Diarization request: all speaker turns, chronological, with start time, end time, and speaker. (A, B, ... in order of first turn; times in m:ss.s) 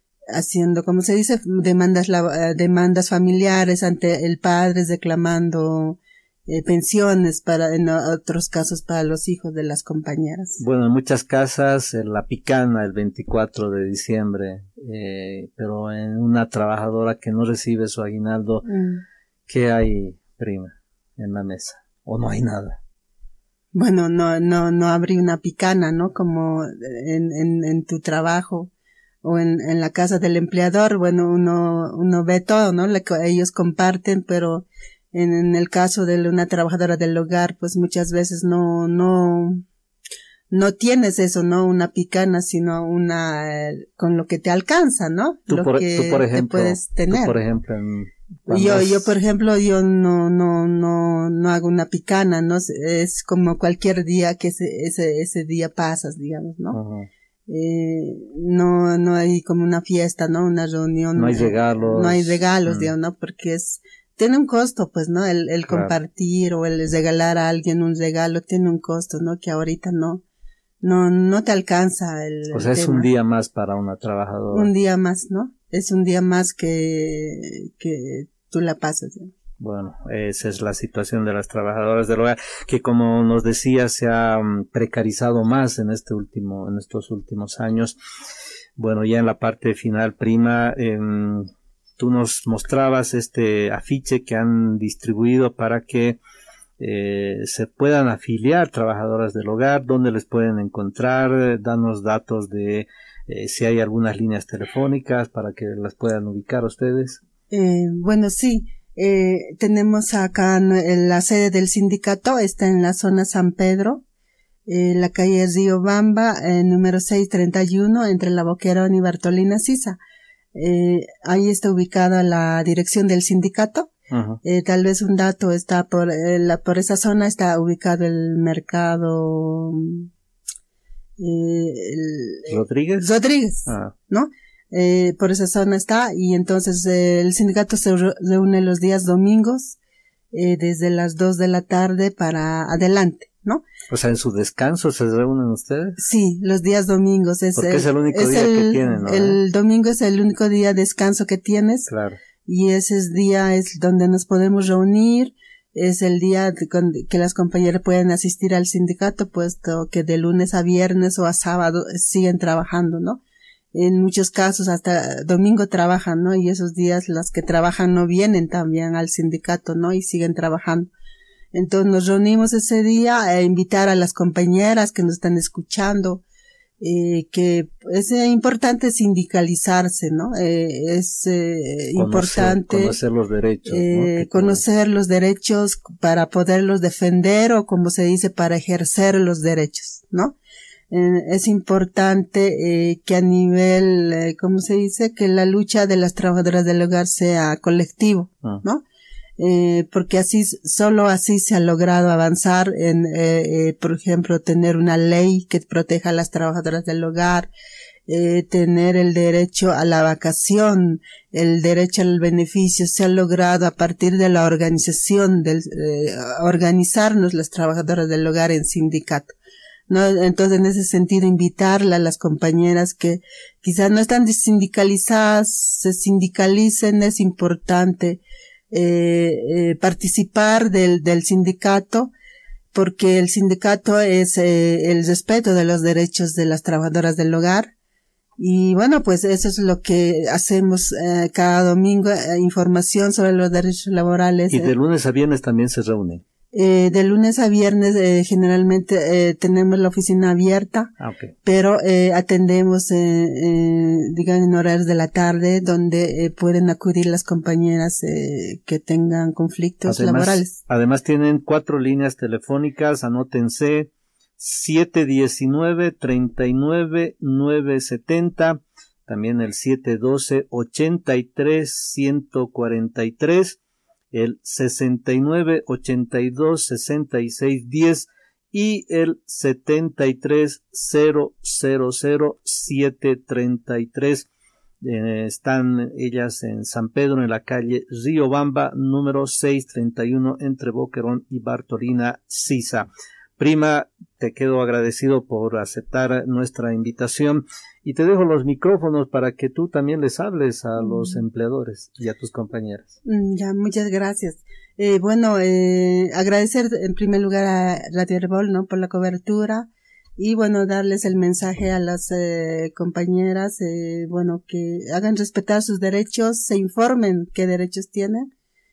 0:00.3-0:10.6 A
0:10.6-0:18.6 B
0:18.6-0:19.0 A
0:19.5-0:22.8 B
0:23.7-0:28.7 A
0:29.2-0:39.6 A
0:40.5-0:47.4 A
0:45.5-0:49.1 B
0:48.5-0:56.8 A
0:56.7-0:57.1 B
0:57.5-1:10.2 A
1:01.1-1:02.9 B
1:05.7-1:05.9 B
1:10.8-1:13.1 A
1:12.5-1:14.7 B
1:14.5-1:19.3 A
1:19.6-1:28.0 B
1:28.8-1:36.2 B
1:36.8-1:47.2 B
1:47.5-1:54.0 A
1:54.7-2:00.0 A
2:00.5-2:03.9 A
2:04.1-2:04.4 B
2:04.4-2:10.1 A
2:11.2-2:19.8 A
2:12.5-2:13.1 B
2:13.7-2:13.9 B
2:20.3-2:23.6 A
2:23.9-2:26.0 B
2:26.0-2:31.9 A
2:27.6-2:29.4 B
2:31.9-2:32.2 B
2:32.4-2:43.2 A
2:43.7-2:50.9 A
2:51.5-2:56.2 A
2:56.8-3:03.0 A
3:02.0-3:04.6 B
3:03.7-3:10.4 A
3:10.9-3:18.8 A
3:19.4-3:27.5 A
3:28.1-3:39.3 A
3:39.9-3:52.1 A
3:52.7-3:57.7 A
3:58.4-4:04.7 A
4:04.5-4:06.2 B
4:06.5-4:10.9 A
4:11.0-4:11.3 B
4:11.4-4:20.6 A
4:19.8-4:33.6 B
4:34.1-4:44.3 B
4:44.8-5:02.9 B
5:00.8-5:01.2 A
5:03.0-5:18.3 A